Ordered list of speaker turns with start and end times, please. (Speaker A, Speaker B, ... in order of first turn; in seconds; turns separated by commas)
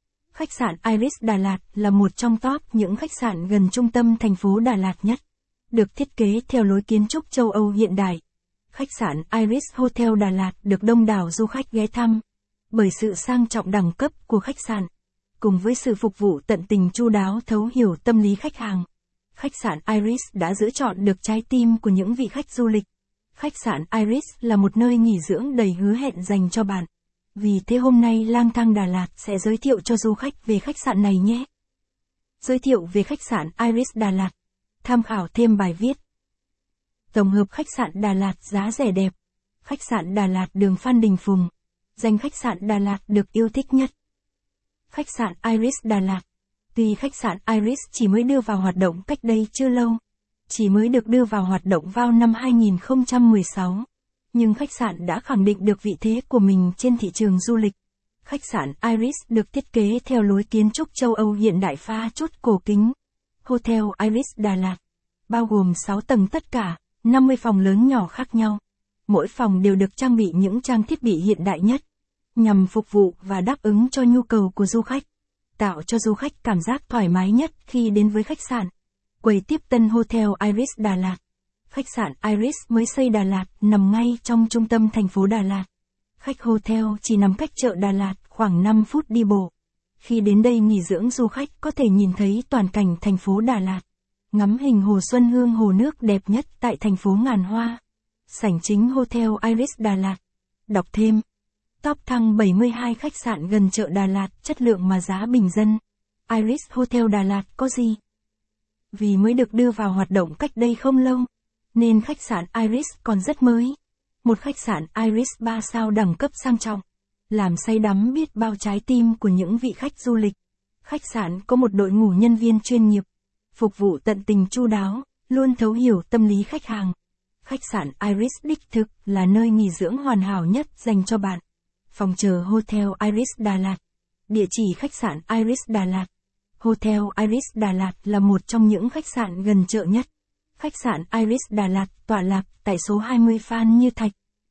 Speaker A: 0.3-5.2, Speaker A: 5.7-8.2, Speaker A: 8.7-14.9, Speaker A: 15.4-31.5, Speaker A: 32.4-34.3, Speaker A: 34.8-36.0, Speaker A: 37.1-43.9, Speaker A: 44.9-46.2, Speaker A: 46.7-71.8, Speaker A: 72.3-75.0, Speaker A: 75.6-78.7, Speaker A: 79.2-81.2, Speaker A: 81.7-85.7, Speaker A: 86.2-101.2, Speaker A: 101.8-108.0, Speaker A: 108.9-131.4, Speaker A: 131.9-136.1, Speaker A: 136.6-144.1